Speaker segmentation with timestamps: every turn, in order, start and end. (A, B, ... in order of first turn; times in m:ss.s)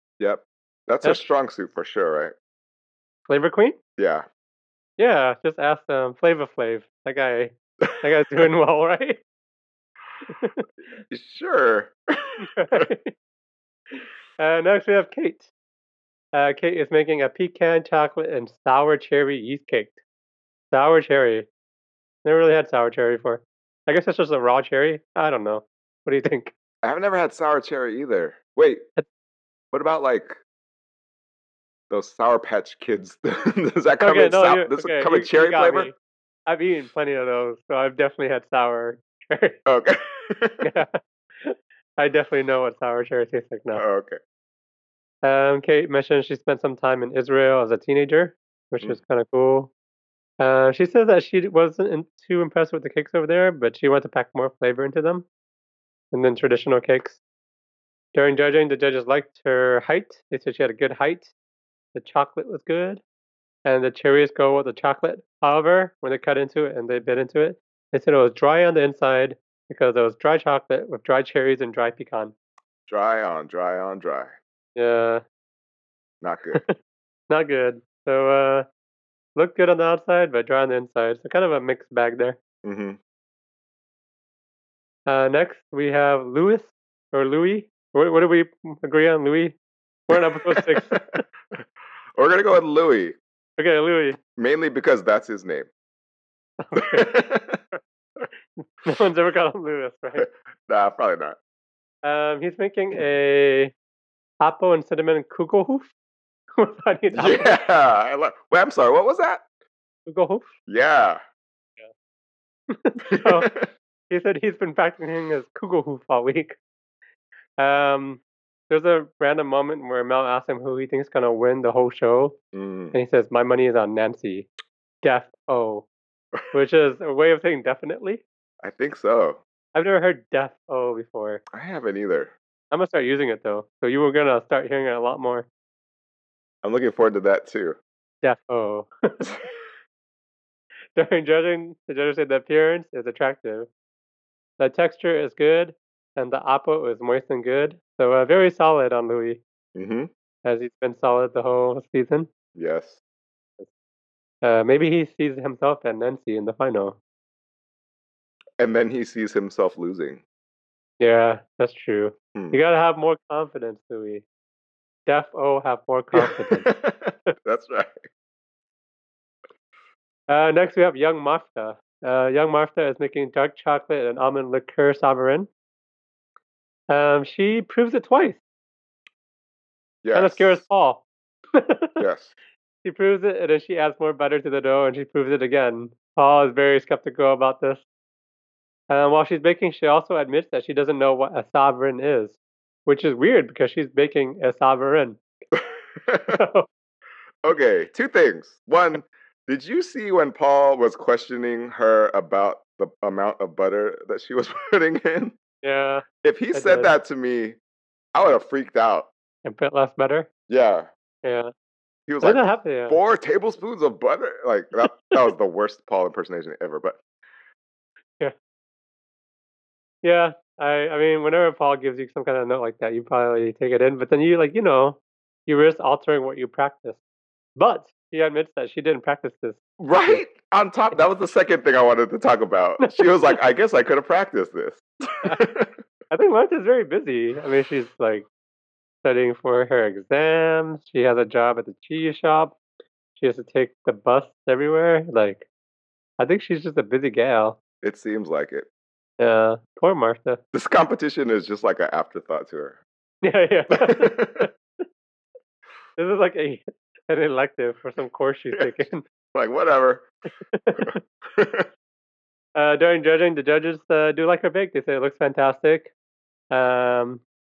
0:00.2-0:02.3 A
0:03.3-0:03.8 B
0:04.0-0:04.2 A
0:05.0-0:09.2 B
0:10.3-0:10.6 B
0:11.1-0:12.8 A
0:12.4-0:13.1 B
0:13.9-0:15.5 B
0:16.3-0:20.0 B
0:20.7-0:21.5 B
0:22.2-0:26.5 B
0:26.8-0:28.8 A
0:29.7-0:30.4 A
0:31.9-0:35.9 A
0:34.0-0:35.9 B
0:36.5-0:39.6 B
0:39.6-0:40.7 A
0:40.6-0:43.8 B
0:43.7-0:44.2 A
0:45.2-0:49.7 B
0:50.4-0:55.2 B
0:56.1-0:57.2 B
0:58.1-1:01.3 B
1:01.9-1:03.0 B
1:03.6-1:12.3 B
1:12.9-1:14.3 A
1:14.8-1:15.2 B
1:16.2-1:16.6 A
1:17.3-1:18.7 B
1:19.4-1:22.4 B
1:22.6-1:23.0 A
1:25.0-1:29.6 B
1:30.1-1:31.2 B
1:30.1-1:31.6 A
1:32.2-1:33.2 A
1:33.6-1:34.2 B
1:34.4-1:35.7 A
1:36.6-1:37.1 B
1:36.8-1:37.6 A
1:38.6-1:40.2 B
1:40.2-1:41.4 A
1:42.0-1:43.7 B
1:44.4-1:45.9 B
1:46.5-1:47.5 B
1:47.1-1:49.4 A
1:50.0-1:50.5 B
1:50.7-1:51.2 A
1:52.7-1:53.5 B
1:53.1-1:53.6 A
1:54.1-1:56.6 B
1:57.6-2:02.4 B
2:02.5-2:02.9 A
2:02.9-2:04.5 B
2:05.0-2:05.9 B
2:06.5-2:08.2 B
2:08.6-2:09.4 A
2:09.7-2:11.4 B
2:11.5-2:12.3 A
2:12.7-2:15.5 B
2:16.6-2:17.8 A
2:18.2-2:19.2 B
2:20.9-2:23.7 B
2:24.6-2:29.4 B
2:29.7-2:30.1 A
2:30.4-2:32.3 B
2:32.5-2:33.0 A
2:34.4-2:37.0 B
2:38.6-2:40.2 A
2:41.0-2:44.2 B
2:45.0-2:46.7 B
2:46.1-2:48.0 A
2:50.3-2:55.5 B
2:56.9-2:58.4 B
3:00.0-3:00.6 A
3:00.1-3:02.0 B
3:02.0-3:02.3 A
3:02.8-3:07.8 B
3:08.9-3:15.2 B
3:15.5-3:16.4 A
3:16.3-3:16.6 B
3:17.4-3:25.3 A
3:25.6-3:26.9 B
3:26.2-3:27.6 A
3:28.1-3:29.1 A
3:29.4-3:30.3 B
3:30.5-3:30.9 A
3:31.2-3:31.5 B
3:32.1-3:37.0 A
3:32.2-3:33.0 B
3:40.0-3:47.0 B
3:47.6-3:49.6 B
3:49.8-3:55.7 A
3:52.8-3:53.0 B
3:56.1-3:58.3 B
3:59.0-4:02.6 B
4:03.2-4:05.5 B
4:06.2-4:07.6 B
4:07.8-4:08.7 A
4:09.2-4:10.4 B
4:10.5-4:12.8 A
4:13.2-4:14.5 B
4:13.7-4:14.5 A
4:16.0-4:19.0 B
4:19.3-4:20.1 A
4:20.5-4:21.0 B
4:20.8-4:21.6 A
4:22.6-4:25.9 B
4:26.5-4:27.2 B